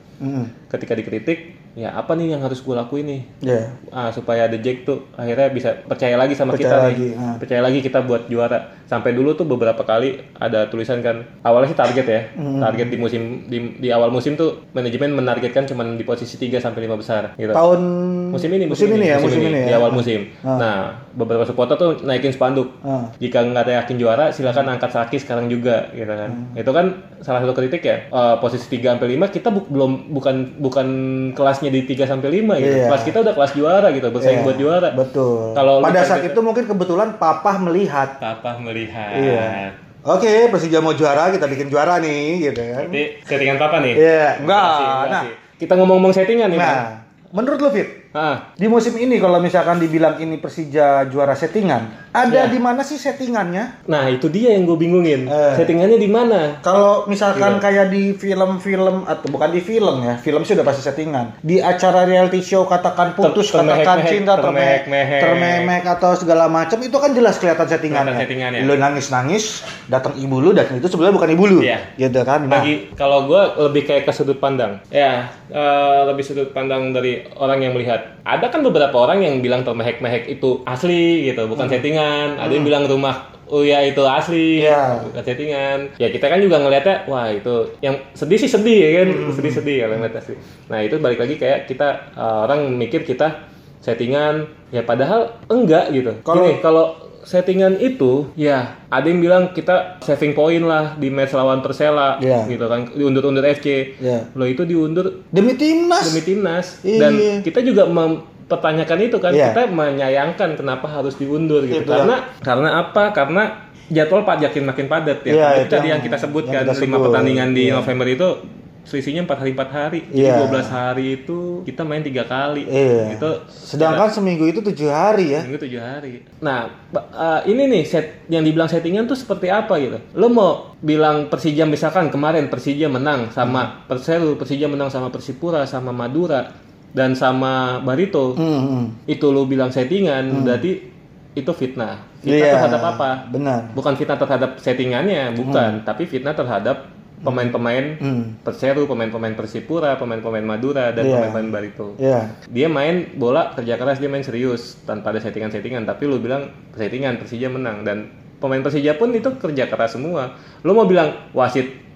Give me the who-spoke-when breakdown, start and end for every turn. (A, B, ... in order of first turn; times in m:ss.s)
0:00.2-0:00.5 A
0:00.7-0:03.3 B
0:03.4-0:03.7 A
0:03.9-0:17.6 B
0:06.5-0:07.4 A
0:12.4-0:12.9 A
0:17.5-0:20.7 A
0:18.3-0:35.0 B
0:22.8-0:23.1 A
0:26.3-0:26.5 A
0:32.6-0:33.2 A
0:34.2-0:38.1 A
0:35.5-0:36.4 B
0:38.2-0:39.7 B
0:39.1-0:43.0 A
0:42.8-0:46.8 B
0:43.9-0:45.3 A
0:46.5-0:48.0 A
0:48.1-0:48.4 B
0:48.6-0:53.7 A
0:52.3-0:52.5 B
0:53.9-0:56.6 B
0:55.3-0:55.7 A
0:56.6-1:12.7 A
0:57.3-0:57.6 B
1:03.2-1:05.7 B
1:07.9-1:08.7 B
1:11.6-1:11.9 B
1:12.5-1:45.2 B
1:21.6-1:21.8 A
1:22.4-1:22.7 A
1:24.6-1:25.1 A
1:29.0-1:29.6 A
1:36.2-1:36.6 A
1:42.2-1:42.5 A
1:44.0-1:44.3 A
1:45.3-1:46.2 A
1:46.0-2:04.1 B
1:46.8-1:47.4 A
1:49.3-1:49.6 A
1:51.7-1:52.1 A
1:55.3-1:57.9 A
2:00.1-2:00.8 A
2:02.7-2:05.5 A
2:05.4-2:18.4 B
2:18.4-2:19.0 A
2:19.1-2:23.2 B
2:20.3-2:20.6 A
2:22.2-2:23.8 A
2:23.7-2:32.0 B
2:25.4-2:25.8 A
2:27.2-2:27.5 A
2:28.0-2:28.4 A
2:31.0-2:32.4 A
2:32.5-2:41.8 B